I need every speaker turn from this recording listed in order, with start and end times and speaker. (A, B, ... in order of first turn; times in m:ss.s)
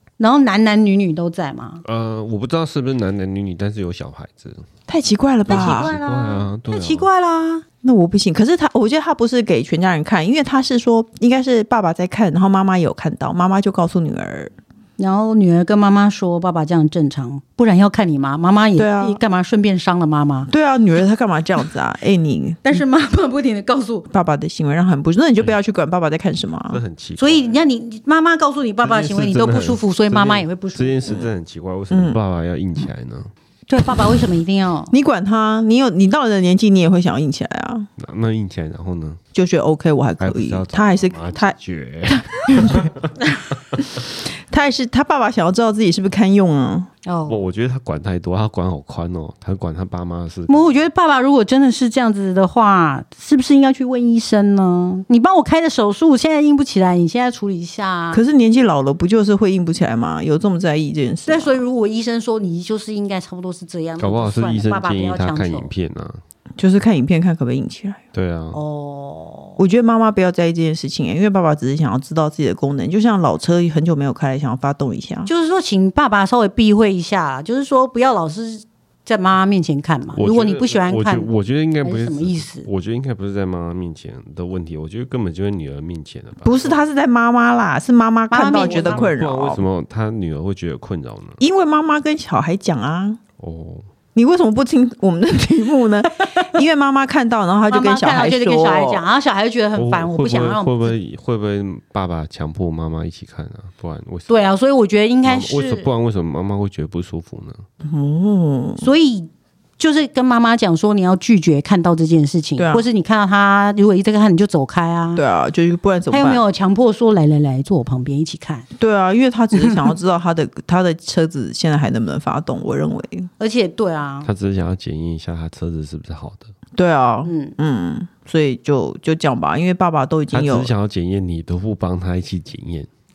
0:00.2-0:01.8 A
0:01.8-0:04.7 B
0:04.9-0:05.9 C
0:05.5-0:07.1 B
0:05.5-0:07.6 A
0:07.8-0:14.5 C
0:15.0-0:20.5 A
0:18.8-0:19.2 C
0:20.5-0:22.8 C
0:22.6-0:24.1 A
0:24.1-0:26.8 C
0:26.7-0:27.6 B
0:27.2-0:31.0 A
0:28.8-0:33.3 B
0:31.9-0:32.2 C
0:33.7-0:34.9 A
0:34.9-0:37.9 C
0:38.0-0:39.2 B
0:39.3-0:41.6 C
0:40.2-0:43.1 B
0:42.1-0:42.9 C
0:44.5-0:46.9 C
0:47.0-0:47.4 A
0:47.3-0:50.7 B
0:50.5-0:58.2 A
0:58.1-1:01.6 C
1:01.2-1:05.7 A
1:04.0-1:06.2 B
1:06.6-1:08.0 C
1:08.1-1:08.6 B
1:08.5-1:09.6 A
1:09.6-1:15.3 C
1:15.2-1:21.3 A
1:20.2-1:26.8 B
1:21.8-1:22.7 A
1:26.4-1:29.6 C
1:28.3-1:29.1 A
1:28.6-1:31.4 B
1:31.4-1:33.2 C
1:33.4-1:33.9 B
1:34.2-1:39.0 C
1:37.7-1:40.9 A
1:39.8-1:44.4 B
1:44.3-1:45.9 A
1:45.2-1:47.6 B
1:47.8-1:48.9 C
1:48.8-1:55.2 A
1:52.6-1:52.8 C
1:55.2-1:56.4 C
1:56.1-1:58.7 A
1:58.8-2:03.3 C
2:03.4-2:04.3 A
2:04.2-2:06.5 B
2:06.8-2:10.7 C
2:07.2-2:07.6 A
2:10.3-2:12.9 B